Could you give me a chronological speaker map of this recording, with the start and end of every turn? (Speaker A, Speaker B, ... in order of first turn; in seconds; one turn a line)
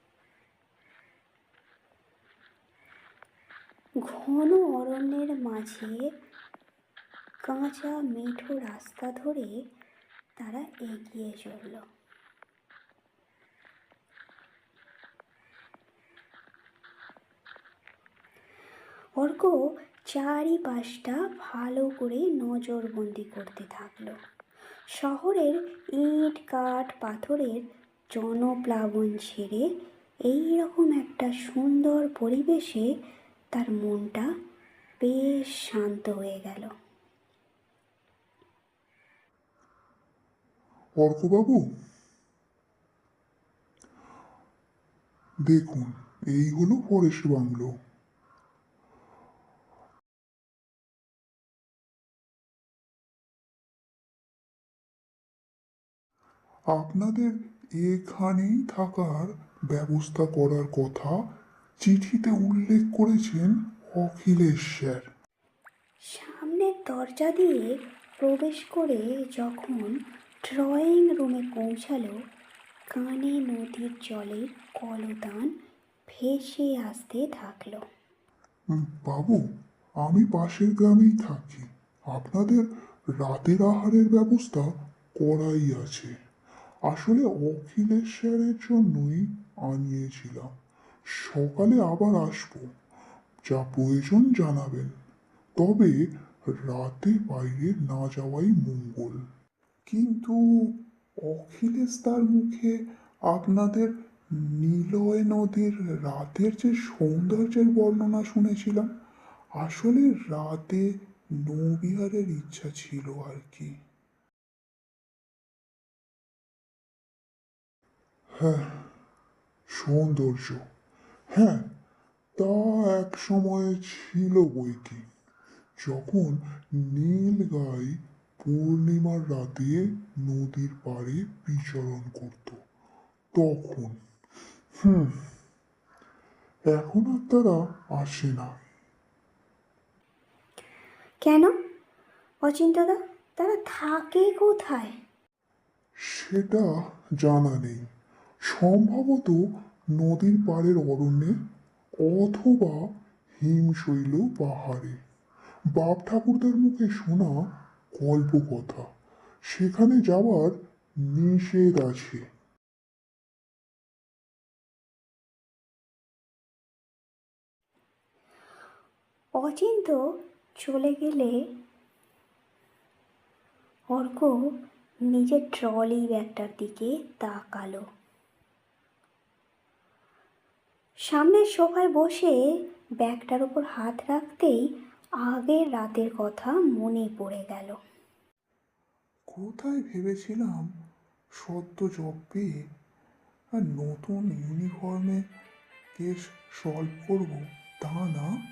Speaker A: 4.0-6.1
Speaker A: 7.4-9.6
Speaker A: 10.4-11.8
Speaker A: 19.2-19.6
Speaker A: 20.1-24.1
Speaker A: 24.9-29.7
Speaker A: 30.3-32.9
Speaker A: 33.5-34.3
Speaker A: 35.0-36.7
Speaker B: 41.0-41.6
Speaker B: 45.5-47.7
Speaker B: 56.8-57.3
Speaker B: 57.9-59.2
Speaker C: 58.5-58.8
Speaker B: 59.8-61.1
Speaker C: 61.9-62.5
Speaker B: 62.3-63.4
Speaker B: 64.0-65.0
Speaker A: 66.1-72.2
Speaker A: 72.9-75.5
Speaker A: 76.1-77.8
Speaker B: 78.8-79.4
Speaker B: 80.0-82.6
Speaker B: 83.2-86.1
Speaker B: 86.9-90.5
Speaker B: 91.2-92.7
Speaker B: 93.5-94.9
Speaker B: 95.6-99.2
Speaker C: 99.9-102.8
Speaker C: 103.3-108.9
Speaker C: 109.6-113.7
Speaker B: 118.3-118.9
Speaker B: 119.7-120.6
Speaker B: 121.3-121.7
Speaker B: 122.4-125.0
Speaker B: 125.8-132.6
Speaker B: 133.3-134.0
Speaker B: 134.8-135.2
Speaker B: 136.7-138.5
Speaker A: 141.2-141.5
Speaker A: 142.4-144.9
Speaker B: 146.1-146.7
Speaker B: 147.2-147.8
Speaker B: 148.5-149.4
Speaker B: 149.9-151.3
Speaker B: 152.0-152.9
Speaker B: 153.4-155.0
Speaker B: 155.8-158.9
Speaker B: 159.5-160.5
Speaker B: 161.0-162.2
Speaker A: 169.4-170.0
Speaker A: 170.6-171.4
Speaker A: 173.9-174.3
Speaker A: 175.1-177.8
Speaker A: 181.1-182.4
Speaker A: 183.0-184.7
Speaker A: 185.2-187.8
Speaker C: 189.3-190.7
Speaker C: 191.3-192.5
Speaker C: 193.6-195.2
Speaker C: 195.9-198.3